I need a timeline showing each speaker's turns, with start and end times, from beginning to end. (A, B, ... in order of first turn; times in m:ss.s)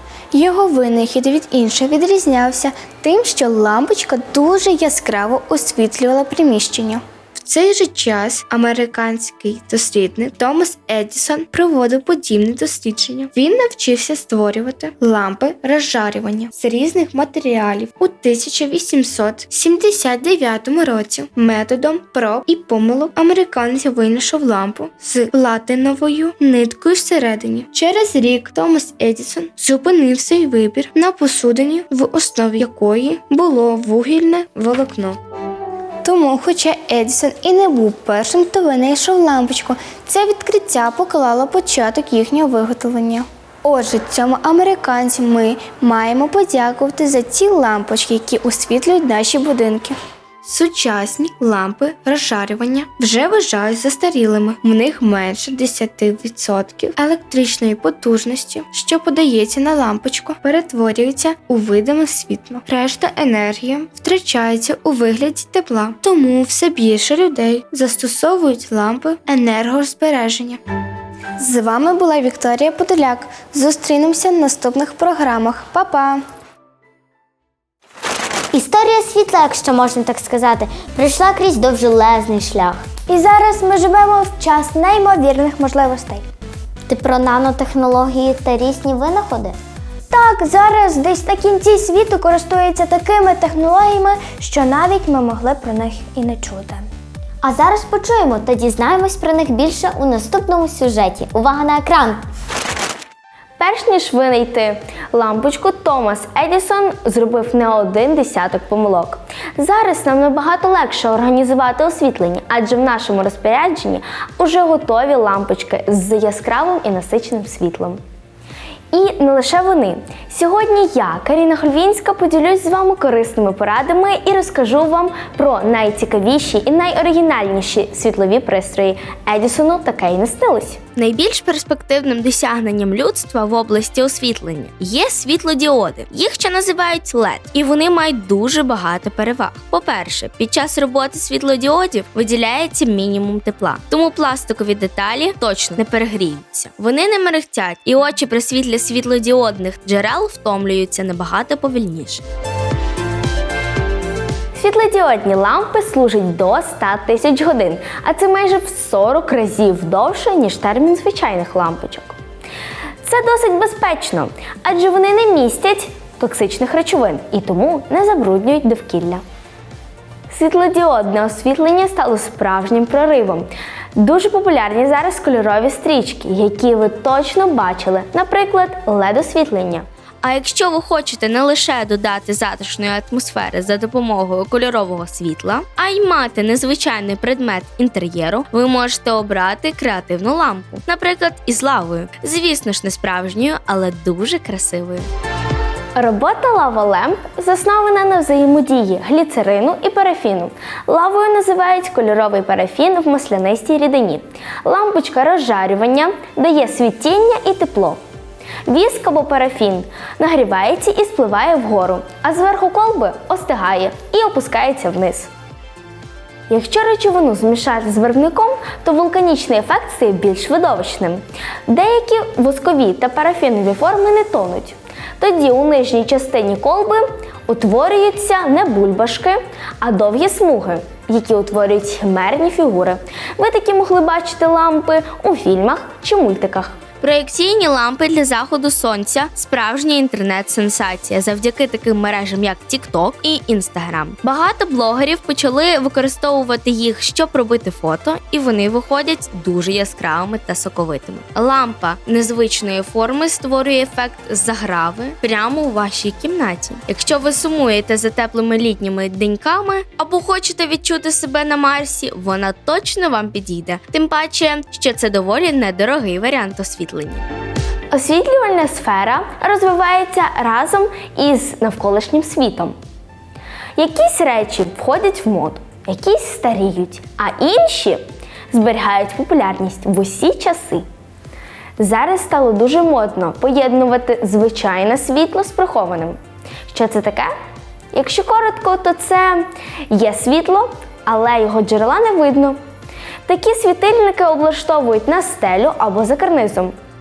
0:00.3-0:35.2 A
0:36.0-1:10.6 A
1:11.4-1:16.2 A
1:18.5-1:22.8 B
1:23.1-1:26.2 C
1:26.9-1:29.6 B
1:30.1-1:36.9 C
1:37.4-1:42.2 B
1:43.6-1:58.0 D
1:58.9-2:10.8 D
2:11.0-2:32.2 E
2:34.5-2:42.1 D
2:43.0-2:49.2 D
2:50.3-2:59.8 D
3:00.2-3:15.1 E
3:16.0-3:28.0 D
3:28.6-3:35.3 D
3:36.5-3:56.9 D
3:57.0-4:27.2 E
4:27.9-4:32.8 D
4:33.8-4:40.8 D
4:41.8-4:47.3 D
4:47.9-4:52.6 D
4:53.3-4:56.8 D